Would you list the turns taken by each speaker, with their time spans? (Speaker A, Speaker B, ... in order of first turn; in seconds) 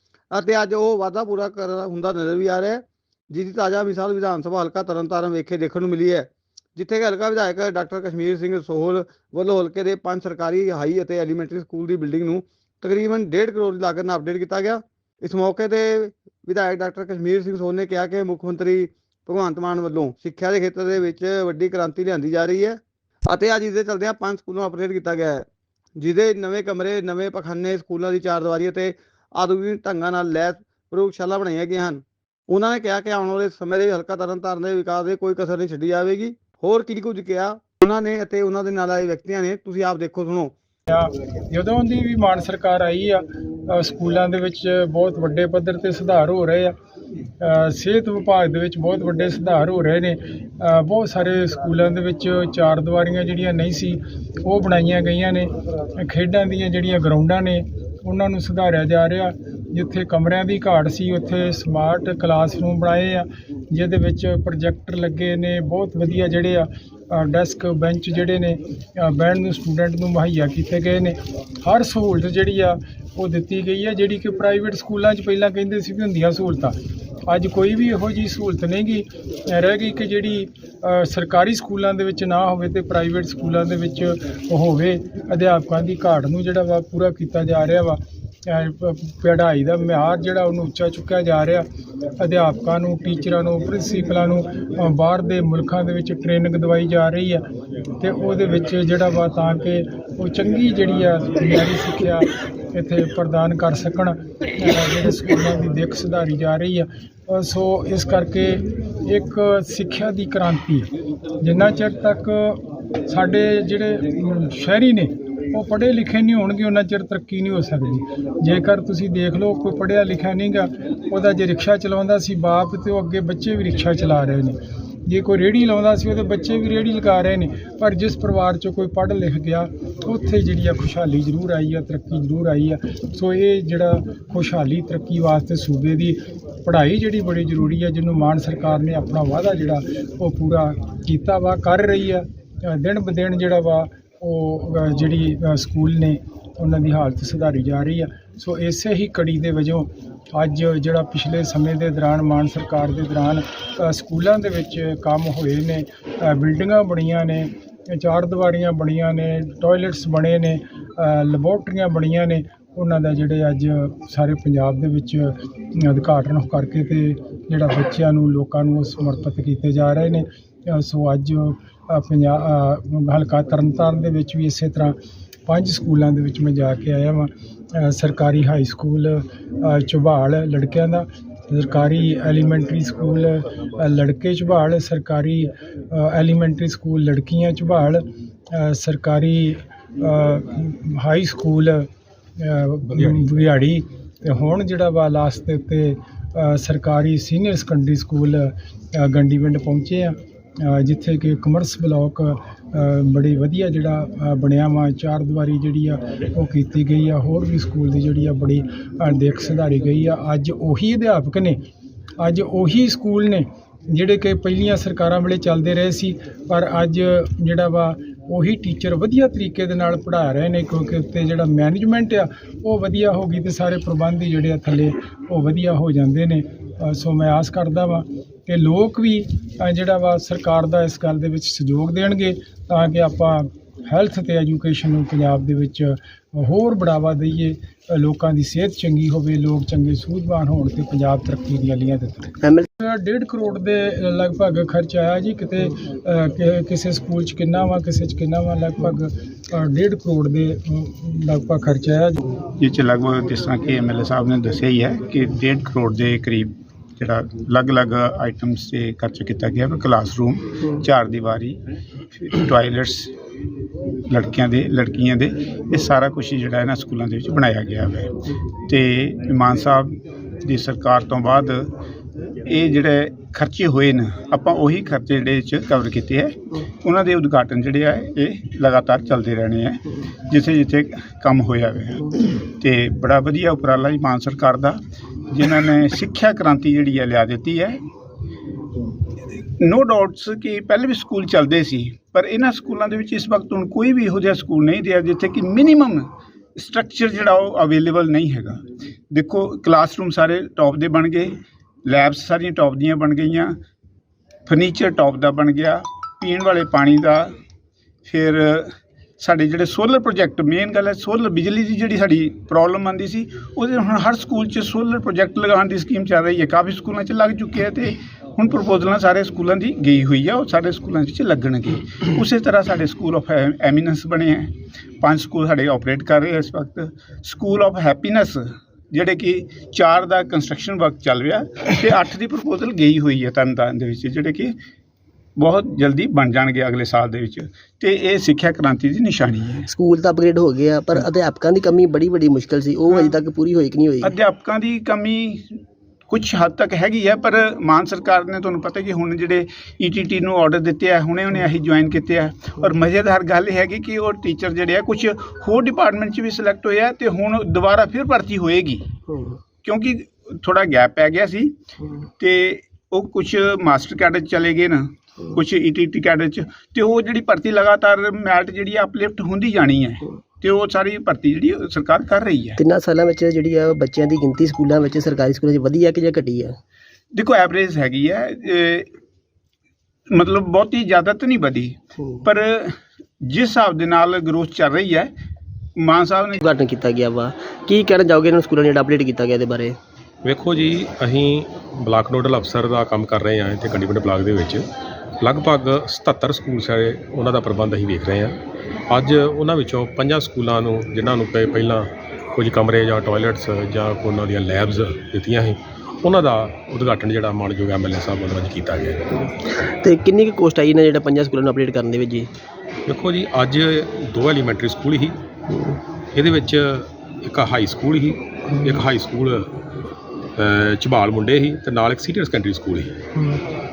Speaker A: 0.3-25.4, 26.0-40.5
Speaker B: 40.9-46.7, 47.4-91.7, 92.2-97.4, 98.0-110.9, 111.4-191.8, 192.4-211.6, 212.2-252.2
Speaker C: 242.4-242.7, 339.7-344.1, 359.1-359.4, 372.6-376.6, 386.4-389.8, 409.3-412.3, 415.5-415.8, 418.5-418.9, 423.1-423.4
Speaker D: 252.6-261.6, 262.3-263.1, 264.1-268.1, 268.7-271.7, 272.4-287.8, 289.6-303.5, 304.5-307.3, 308.0-334.5, 335.4-339.6, 342.9-343.2, 344.0-359.0, 359.6-361.6, 362.2-372.6, 377.1-378.9, 380.1-385.1, 385.8-386.4
Speaker E: 390.2-394.6, 395.2-409.0, 412.9-415.2, 416.1-419.5, 420.4-423.0